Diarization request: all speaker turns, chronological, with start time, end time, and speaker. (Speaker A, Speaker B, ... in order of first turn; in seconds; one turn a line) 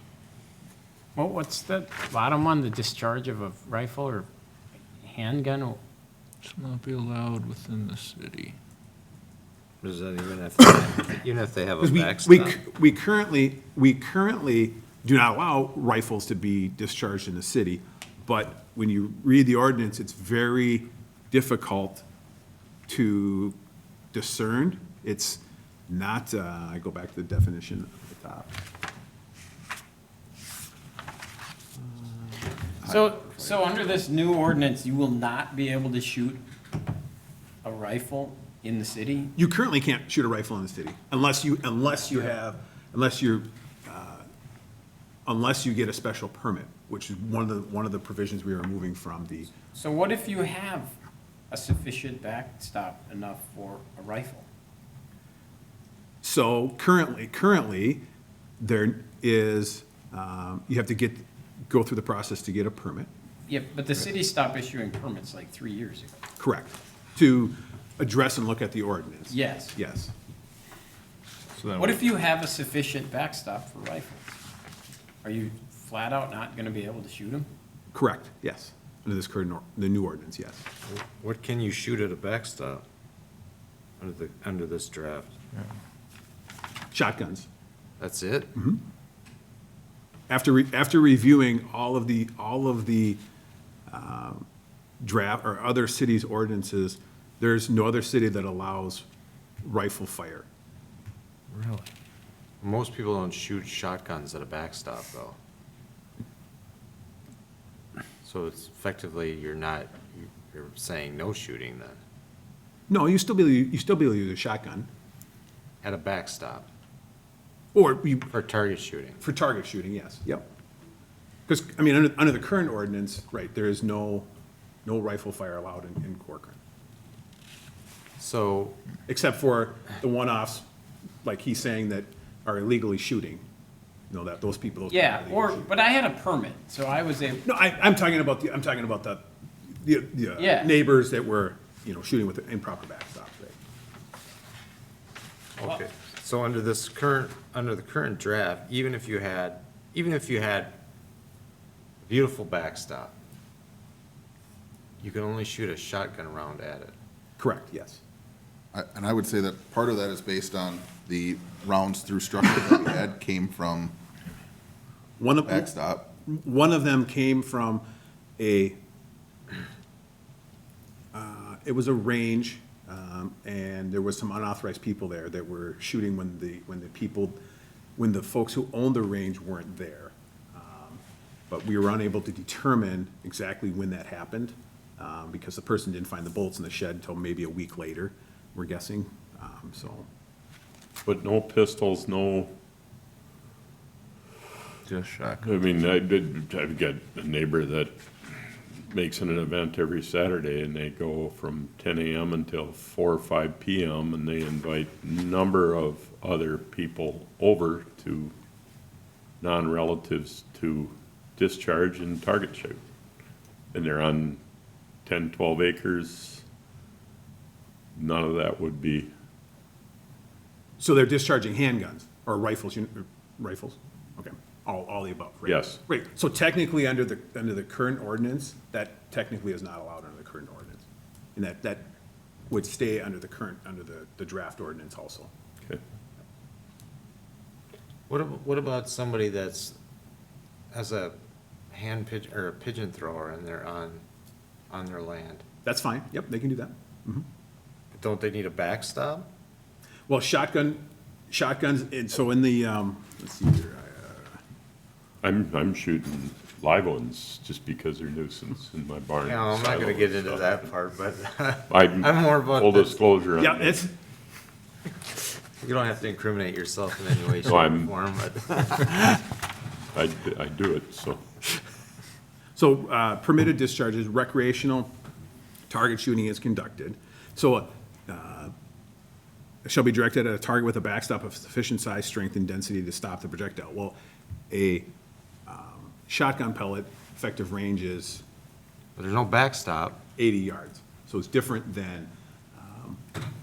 Speaker A: 1.1-4.3
Speaker A: 5.0-5.8
Speaker B: 6.5-8.6
Speaker C: 9.8-12.6
Speaker D: 11.8-22.1
Speaker D: 22.9-23.6
Speaker D: 24.1-28.5
Speaker A: 32.9-36.4
Speaker A: 37.6-39.3
Speaker D: 39.4-44.3
Speaker D: 45.3-49.5
Speaker A: 49.7-50.9
Speaker A: 51.5-54.5
Speaker D: 56.2-58.0
Speaker D: 58.6-63.1
Speaker A: 63.5-66.2
Speaker D: 66.4-70.1
Speaker A: 69.3-69.8
Speaker A: 71.8-74.4
Speaker A: 75.2-77.5
Speaker D: 77.9-80.7
Speaker C: 80.9-82.8
Speaker C: 84.0-85.4
Speaker D: 86.9-87.5
Speaker C: 88.0-88.5
Speaker D: 88.5-88.8
Speaker D: 90.3-93.2
Speaker D: 93.9-94.5
Speaker D: 95.0-99.0
Speaker D: 99.6-100.5
Speaker C: 102.6-105.4
Speaker C: 108.2-112.0
Speaker D: 112.9-114.9
Speaker C: 115.8-116.7
Speaker D: 117.7-118.3
Speaker C: 118.3-119.2
Speaker D: 119.2-120.5
Speaker D: 121.5-124.3
Speaker D: 124.8-126.6
Speaker C: 128.2-128.8
Speaker D: 129.1-130.7
Speaker D: 131.2-133.4
Speaker D: 134.1-135.7
Speaker A: 134.9-137.4
Speaker D: 137.4-139.2
Speaker D: 139.8-143.6
Speaker A: 140.4-140.7
Speaker C: 145.6-150.8
Speaker C: 152.0-153.1
Speaker C: 155.0-156.9
Speaker D: 157.4-158.0
Speaker E: 158.7-164.0
Speaker D: 165.2-167.8
Speaker E: 165.4-166.1
Speaker D: 168.4-168.8
Speaker D: 171.1-177.4
Speaker D: 178.0-190.1
Speaker F: 191.0-192.5
Speaker F: 195.3-208.3
Speaker F: 209.4-212.8
Speaker F: 213.7-214.4
Speaker F: 215.1-216.4
Speaker F: 218.0-219.1
Speaker D: 220.8-230.8
Speaker F: 225.5-225.8
Speaker D: 231.4-231.9
Speaker D: 232.5-235.3
Speaker C: 238.1-239.8
Speaker C: 240.7-241.2
Speaker C: 241.7-244.0
Speaker C: 244.7-245.4
Speaker D: 245.7-247.3
Speaker C: 247.9-249.3
Speaker D: 250.1-254.4
Speaker F: 255.2-260.7
Speaker C: 259.2-263.0
Speaker F: 261.7-263.8
Speaker D: 263.4-263.9
Speaker C: 265.6-268.9
Speaker F: 267.4-268.0
Speaker F: 269.9-271.2
Speaker D: 272.6-274.9
Speaker D: 275.7-278.5
Speaker D: 279.6-284.0
Speaker D: 284.5-284.9
Speaker D: 285.5-288.2
Speaker C: 289.0-290.0
Speaker D: 290.2-293.0